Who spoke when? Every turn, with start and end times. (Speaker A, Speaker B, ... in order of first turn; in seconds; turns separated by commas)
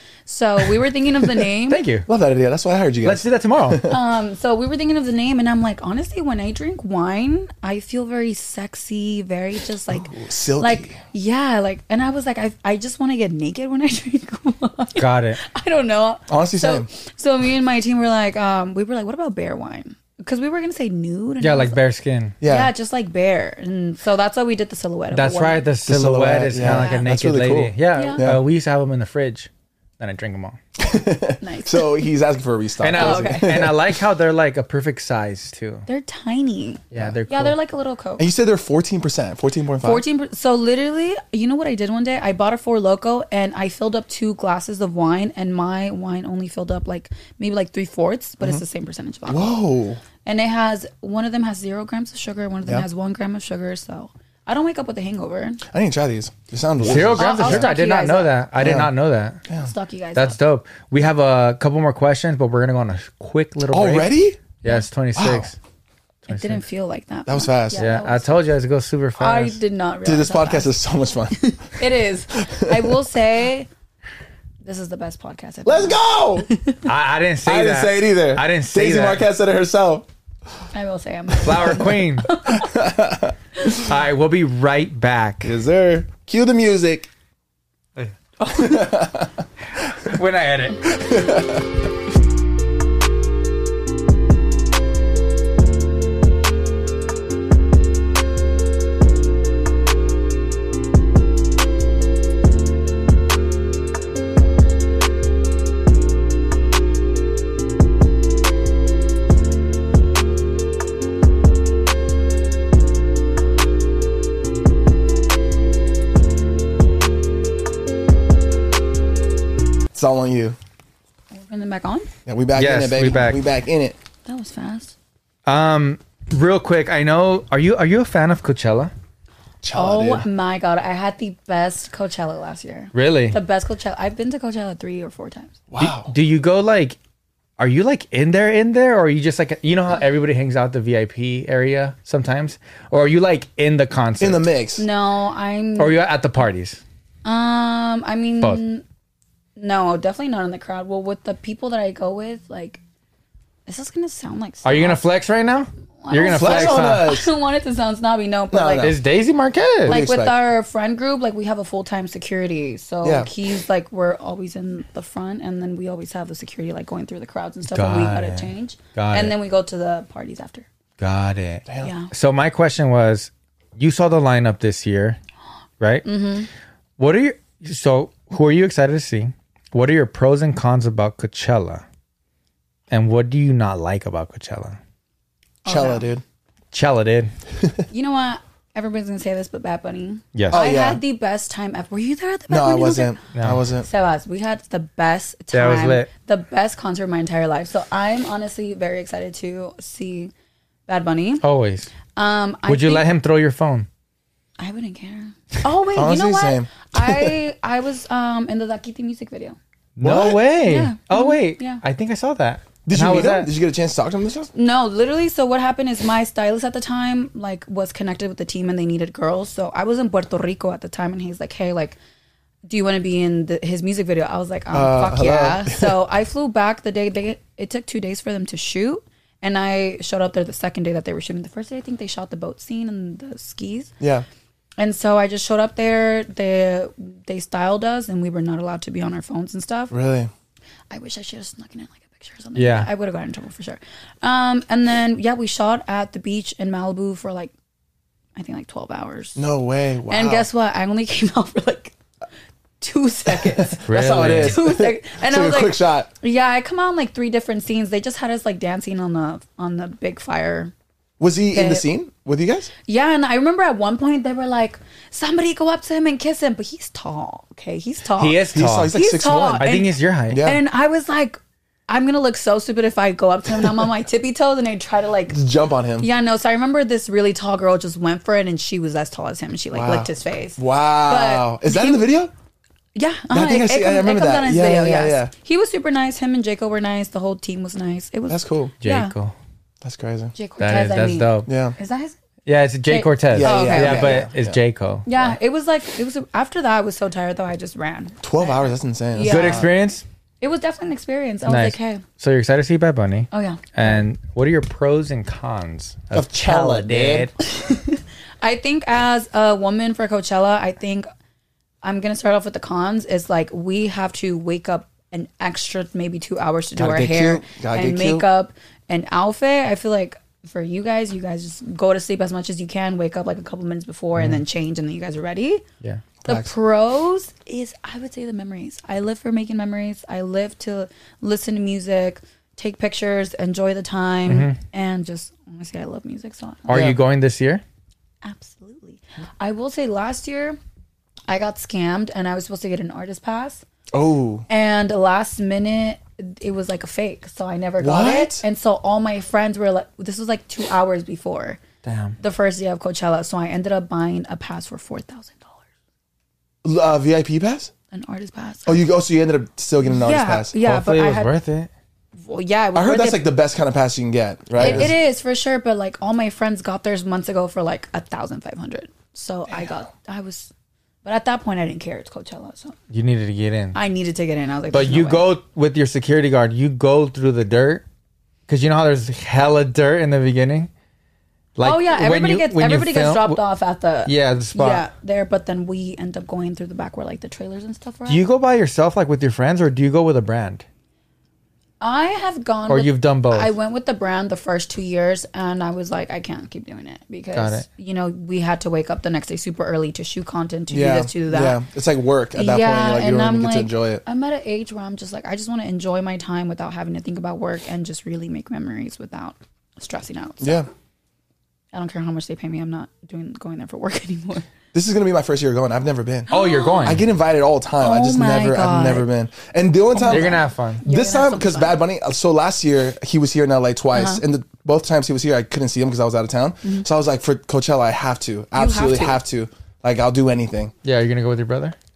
Speaker A: 0.3-1.8, Speaker B: 1.7-2.0, Speaker C: 2.0-4.0, Speaker B: 3.0-3.9, Speaker A: 3.9-21.8, Speaker C: 9.9-11.0, Speaker B: 15.0-15.4, Speaker C: 16.3-16.9, Speaker B: 21.4-22.4, Speaker C: 22.4-22.7, Speaker A: 22.4-25.7, Speaker B: 25.1-30.6, Speaker C: 25.9-28.4, Speaker A: 26.5-27.1, Speaker A: 27.9-28.2, Speaker C: 30.8-33.9, Speaker A: 31.4-32.1, Speaker B: 32.8-35.9, Speaker A: 32.9-33.6, Speaker A: 35.9-38.2, Speaker B: 36.9-37.5, Speaker C: 38.2-40.0, Speaker A: 39.8-49.6, Speaker C: 49.3-50.0, Speaker A: 50.2-55.6, Speaker C: 55.7-57.7, Speaker B: 56.8-59.4, Speaker A: 56.9-58.4, Speaker C: 58.6-58.9, Speaker A: 59.6-60.4, Speaker B: 60.1-65.5, Speaker C: 63.7-64.4, Speaker C: 65.2-65.5, Speaker B: 66.2-66.6, Speaker A: 66.3-68.3, Speaker C: 67.3-67.8, Speaker B: 67.8-69.6, Speaker A: 69.2-70.8, Speaker C: 70.0-71.5, Speaker A: 71.4-73.7, Speaker C: 72.4-72.9, Speaker A: 74.6-76.8, Speaker C: 75.6-76.5, Speaker B: 76.8-79.2, Speaker C: 77.4-80.1, Speaker A: 80.7-82.8, Speaker B: 81.4-82.3, Speaker C: 82.5-83.3, Speaker B: 83.8-85.6, Speaker C: 85.4-87.1, Speaker C: 88.4-89.9, Speaker B: 90.0-90.8, Speaker C: 90.8-91.7, Speaker C: 119.9-120.6, Speaker A: 121.3-122.1, Speaker C: 122.2-124.0, Speaker B: 122.5-123.4, Speaker A: 124.2-124.9, Speaker B: 125.5-128.9, Speaker C: 129.6-130.3, Speaker A: 129.7-135.6, Speaker B: 132.9-133.4, Speaker C: 135.7-136.1, Speaker B: 135.8-137.0, Speaker B: 137.6-144.5, Speaker C: 144.2-144.8, Speaker A: 144.8-146.0, Speaker B: 145.8-146.8, Speaker A: 147.2-148.8, Speaker A: 149.6-152.8, Speaker A: 153.7-155.0, Speaker B: 154.6-157.1, Speaker A: 156.0-158.9, Speaker C: 156.3-157.3, Speaker C: 158.5-158.9, Speaker B: 158.8-160.0, Speaker C: 159.8-160.3, Speaker A: 159.8-170.7, Speaker C: 163.0-163.3, Speaker B: 167.7-169.3, Speaker B: 171.0-175.2, Speaker C: 171.7-171.9, Speaker A: 171.8-172.1, Speaker B: 175.8-176.1, Speaker A: 176.0-176.5, Speaker B: 177.0-181.8, Speaker B: 182.9-184.8, Speaker A: 185.6-186.1, Speaker C: 185.6-186.2, Speaker B: 186.7-187.3, Speaker A: 187.9-193.2, Speaker B: 190.3-190.6, Speaker C: 190.5-191.0, Speaker C: 192.5-193.9, Speaker B: 193.3-193.6, Speaker A: 193.8-200.3, Speaker B: 195.5-196.1, Speaker A: 200.9-201.4, Speaker B: 201.4-201.9, Speaker A: 202.1-203.1, Speaker B: 202.7-203.9, Speaker A: 204.6-209.6, Speaker C: 205.9-207.4, Speaker B: 210.0-213.5, Speaker C: 210.0-210.4, Speaker A: 210.6-211.8, Speaker C: 212.8-214.5, Speaker A: 214.5-222.0, Speaker A: 222.7-233.9, Speaker C: 224.7-226.0, Speaker C: 234.0-234.2, Speaker A: 234.8-239.9, Speaker C: 239.9-240.3, Speaker A: 240.9-247.5, Speaker B: 242.5-242.9, Speaker A: 248.3-249.4, Speaker C: 249.4-250.5, Speaker A: 250.1-251.9, Speaker A: 252.8-260.7, Speaker C: 253.3-256.1, Speaker B: 253.9-254.6, Speaker C: 261.2-262.7, Speaker A: 261.5-261.8, Speaker A: 262.9-275.4, Speaker B: 268.2-268.9, Speaker C: 268.5-269.7, Speaker B: 269.6-270.4, Speaker C: 270.3-270.6, Speaker C: 275.3-276.1, Speaker A: 276.0-282.0, Speaker C: 279.7-282.3, Speaker A: 282.9-289.1, Speaker C: 283.3-285.3, Speaker C: 288.3-288.7, Speaker B: 288.8-289.3, Speaker C: 289.8-290.3, Speaker A: 290.3-292.1, Speaker B: 290.6-291.5, Speaker C: 291.5-291.7, Speaker B: 292.4-295.1, Speaker A: 292.9-294.3, Speaker C: 293.3-294.6, Speaker A: 295.1-299.7, Speaker C: 298.2-299.7, Speaker B: 299.2-300.0, Speaker A: 300.4-302.0, Speaker B: 301.4-307.3, Speaker A: 303.3-304.0, Speaker C: 306.1-307.3, Speaker A: 307.4-311.1, Speaker A: 311.8-325.6, Speaker C: 316.8-318.3, Speaker B: 324.1-324.4, Speaker C: 326.2-326.5, Speaker A: 326.2-336.9, Speaker B: 334.3-334.6, Speaker B: 336.7-337.6, Speaker C: 336.7-337.0, Speaker A: 338.2-340.6, Speaker A: 341.3-343.6, Speaker C: 343.9-344.4, Speaker A: 344.5-351.6, Speaker C: 347.8-348.4, Speaker B: 351.8-352.2, Speaker A: 352.2-355.6, Speaker C: 356.6-357.7, Speaker A: 357.9-358.9, Speaker C: 358.6-360.6, Speaker A: 359.8-361.3, Speaker B: 360.6-361.7, Speaker A: 362.2-363.3, Speaker C: 362.7-364.9, Speaker A: 364.6-370.5, Speaker B: 364.6-364.9, Speaker C: 369.5-369.8, Speaker A: 371.0-372.8, Speaker B: 372.9-373.8, Speaker A: 373.7-375.3, Speaker B: 374.7-377.8, Speaker B: 378.5-380.7, Speaker B: 381.6-383.4, Speaker A: 381.6-388.2, Speaker B: 384.1-384.9, Speaker B: 388.1-390.6, Speaker A: 391.8-401.6, Speaker B: 392.7-393.5, Speaker B: 397.3-397.6, Speaker C: 400.7-404.0, Speaker A: 402.3-410.7, Speaker C: 410.4-410.7, Speaker A: 411.7-414.4, Speaker C: 414.7-416.3, Speaker B: 416.3-417.0, Speaker A: 416.3-417.0, Speaker C: 416.8-430.7, Speaker A: 417.8-419.1, Speaker A: 419.9-421.8, Speaker B: 420.1-420.8, Speaker A: 423.9-424.2, Speaker A: 428.5-429.2, Speaker B: 430.8-431.8